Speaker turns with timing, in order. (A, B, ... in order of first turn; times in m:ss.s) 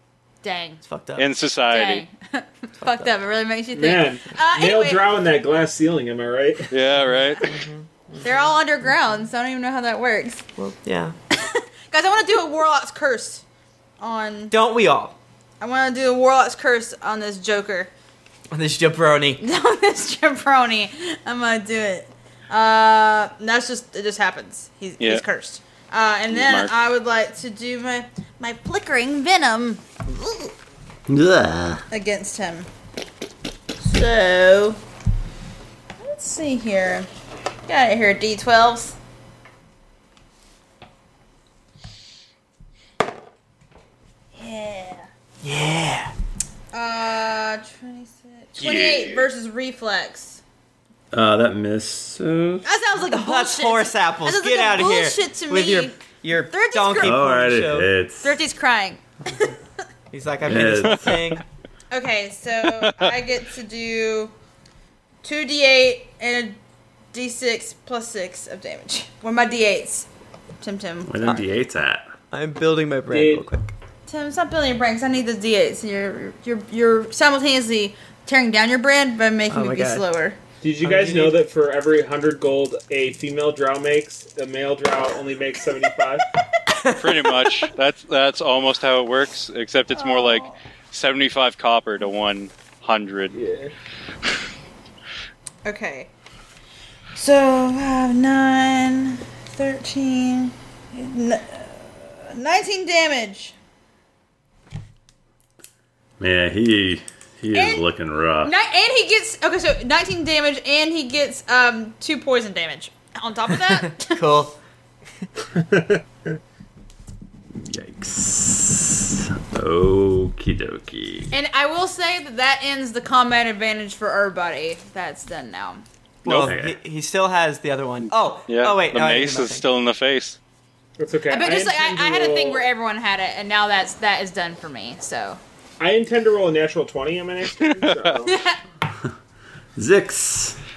0:00.4-0:00.8 A
0:00.8-0:01.3 B
0:01.2-0:02.0 C
0:01.6-0:05.1 A
0:02.8-0:03.1 B
0:03.7-0:06.7 D
0:06.7-0:07.6 C
0:07.4-0:08.9 B
0:08.2-0:10.5 A
0:10.6-0:11.2 B
0:11.3-0:13.4 A
0:14.0-0:14.6 A
0:14.5-0:15.2 B
0:15.6-0:17.9 A
0:18.5-0:19.4 B
0:19.4-0:30.5 A
0:26.3-0:26.7 C
0:31.1-0:31.8 E
0:31.9-0:32.7 A
0:33.8-0:34.8 A
0:36.0-0:37.1 A
0:37.7-0:39.0 A
0:44.4-0:45.1 A
0:45.4-0:46.1 B
0:46.7-0:50.4 A
0:48.6-0:49.3 C
0:51.1-0:52.6 E
0:52.6-0:57.2 A
0:53.1-0:57.9 B
0:57.0-0:58.4 E
0:58.2-0:59.5 A
1:00.1-1:01.4 B
1:00.4-1:01.2 E
1:00.8-1:01.4 C
1:01.9-1:04.3 A
1:02.6-1:03.1 C
1:05.2-1:06.6 A
1:07.1-1:10.1 A
1:10.6-1:11.4 A
1:11.0-1:12.1 E
1:12.3-1:13.7 B
1:13.1-1:13.5 D
1:14.1-1:20.4 A
1:19.5-1:20.0 B
1:20.6-1:26.3 D
1:20.8-1:21.4 B
1:26.7-1:27.7 B
1:27.0-1:33.4 C
1:29.9-1:30.6 A
1:33.3-1:33.7 D
1:35.6-1:36.1 A
1:37.1-1:43.6 A
1:46.2-1:48.6 E
1:47.5-1:47.8 A
1:48.4-1:54.2 A
1:53.7-1:54.6 B
1:55.5-1:56.4 D
1:57.6-2:01.3 E
2:01.3-2:05.8 A
2:06.2-2:09.6 B
2:06.2-2:06.5 C
2:06.4-2:06.8 E
2:08.0-2:10.4 C
2:11.0-2:12.7 D
2:11.3-2:15.4 A
2:15.8-2:18.4 D
2:17.6-2:18.2 C
2:18.3-2:18.6 A
2:19.8-2:20.6 E